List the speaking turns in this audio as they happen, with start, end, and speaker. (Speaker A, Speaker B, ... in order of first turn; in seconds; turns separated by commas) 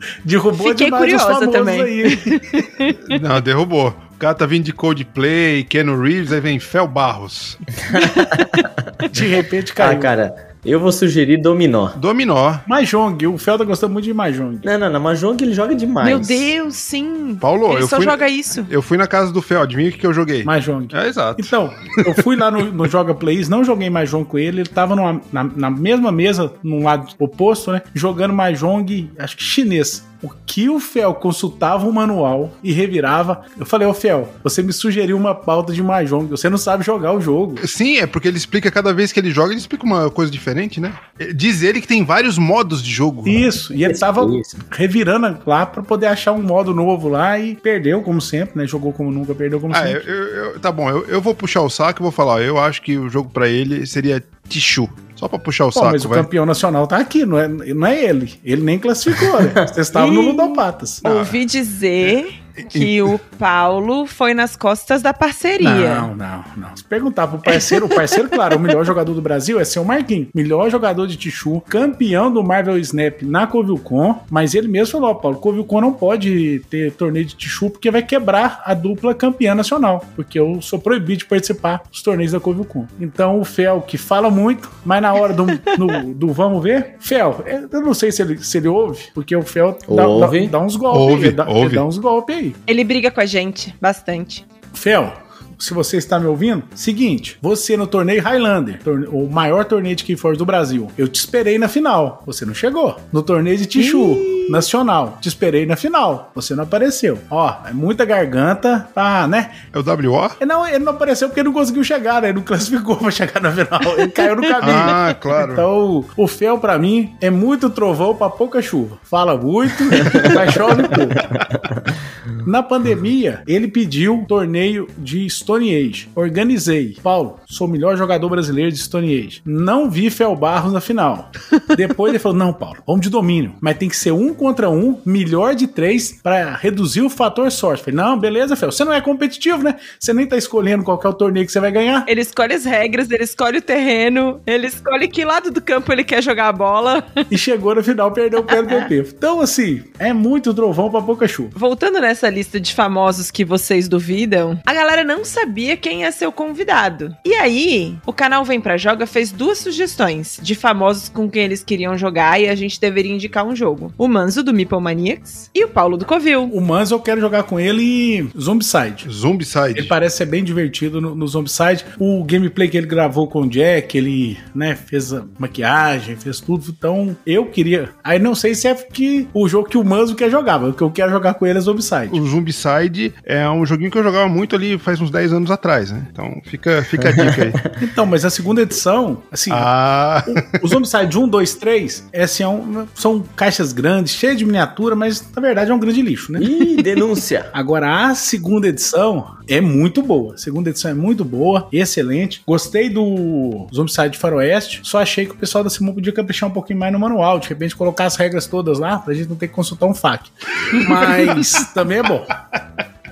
Speaker A: 0.2-2.6, Speaker B: 0.6-3.0, Speaker C: 3.1-7.6, Speaker D: 7.9-9.0, Speaker B: 8.0-8.5, Speaker A: 9.1-10.1, Speaker D: 9.8-12.0, Speaker C: 12.0-12.6, Speaker A: 12.7-14.7, Speaker D: 14.6-16.5, Speaker B: 16.0-18.7, Speaker C: 17.4-22.1, Speaker A: 20.4-37.6, Speaker C: 37.6-43.5, Speaker A: 43.3-50.0, Speaker D: 43.8-44.6, Speaker C: 49.7-56.3, Speaker A: 55.7-61.0, Speaker D: 59.4-59.6, Speaker B: 60.0-60.5, Speaker C: 61.0-61.4, Speaker B: 61.0-66.1, Speaker C: 62.6-63.0, Speaker A: 65.6-92.6, Speaker B: 67.5-68.8, Speaker D: 89.9-90.6, Speaker C: 90.9-91.8, Speaker B: 92.7-94.4, Speaker A: 94.7-109.6, Speaker B: 103.8-104.7, Speaker C: 109.7-110.4, Speaker A: 110.4-121.2, Speaker C: 114.6-115.7, Speaker C: 121.2-121.5, Speaker A: 122.4-142.1, Speaker B: 142.1-147.2, Speaker A: 147.3-151.5, Speaker B: 148.5-148.9, Speaker B: 151.6-166.5, Speaker A: 166.5-169.1, Speaker C: 169.1-169.9, Speaker A: 169.7-182.2, Speaker C: 182.1-187.6, Speaker D: 187.0-187.7, Speaker A: 187.8-189.7, Speaker C: 189.5-190.5, Speaker A: 190.2-196.5, Speaker D: 196.4-197.5, Speaker A: 197.5-212.3